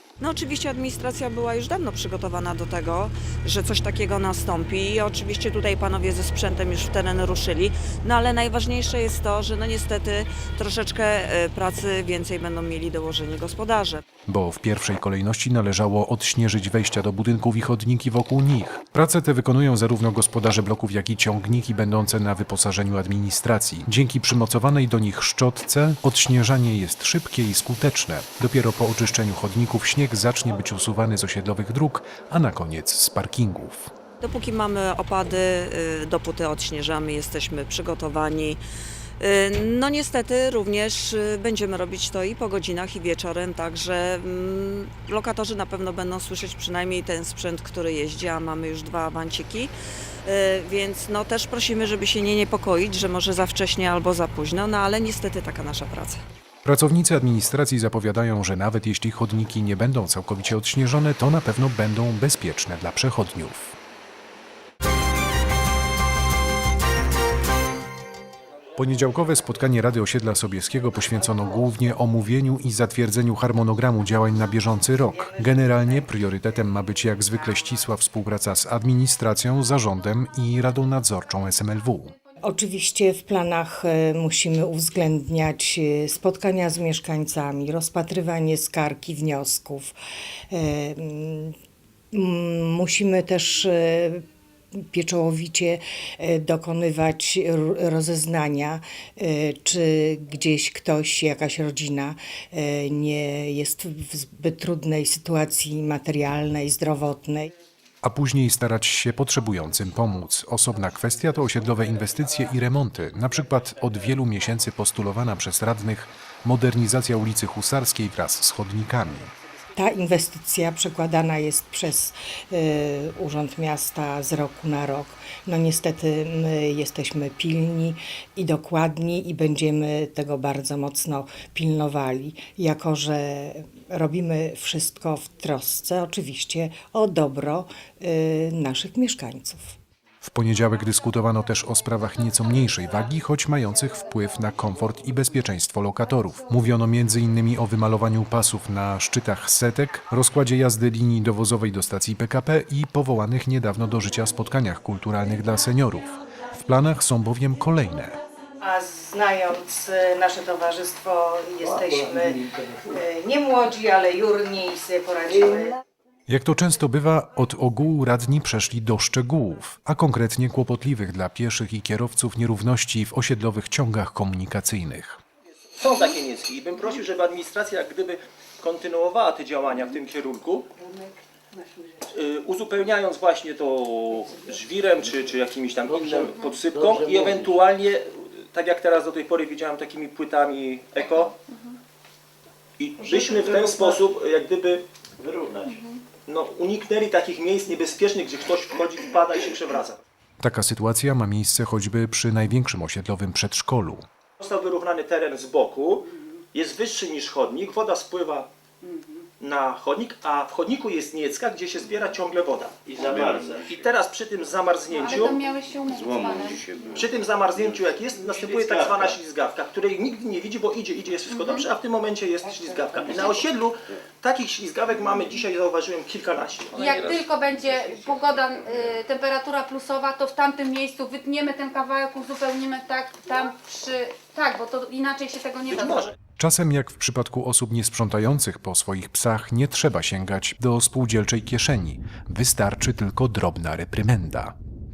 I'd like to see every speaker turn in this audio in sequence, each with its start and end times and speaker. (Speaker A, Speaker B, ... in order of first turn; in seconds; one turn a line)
Speaker A: 0.2-14.0
Speaker B: 14.3-33.9
Speaker A: 34.2-38.6
Speaker A: 39.2-49.7
Speaker A: 50.3-56.2
Speaker B: 56.6-63.8
Speaker B: 68.8-82.1
Speaker C: 75.0-76.1
Speaker C: 82.4-90.0
Speaker C: 90.5-91.5
Speaker C: 92.1-94.2
Speaker C: 94.8-107.5
Speaker B: 108.0-119.3
Speaker C: 119.8-139.8
Speaker B: 140.2-158.2
Speaker C: 158.6-165.8
Speaker B: 166.3-175.2
Speaker D: 175.8-180.7
Speaker D: 182.1-191.4
Speaker E: 185.8-187.6
Speaker F: 191.5-191.8
Speaker D: 192.8-194.8
Speaker E: 193.0-194.0
Speaker E: 195.2-195.8
Speaker F: 195.6-196.0
Speaker D: 196.3-200.0
Speaker B: 200.4-204.1
Speaker D: 204.4-208.5
Speaker D: 209.4-215.4
Speaker E: 212.9-213.9
Speaker F: 214.9-217.0
Speaker E: 215.8-219.2
Speaker D: 216.8-227.1
Speaker F: 221.3-221.7
Speaker E: 223.0-223.4
Speaker F: 226.8-236.1
Speaker E: 226.8-228.9
Speaker D: 235.7-236.1
Speaker B: 236.4-244.6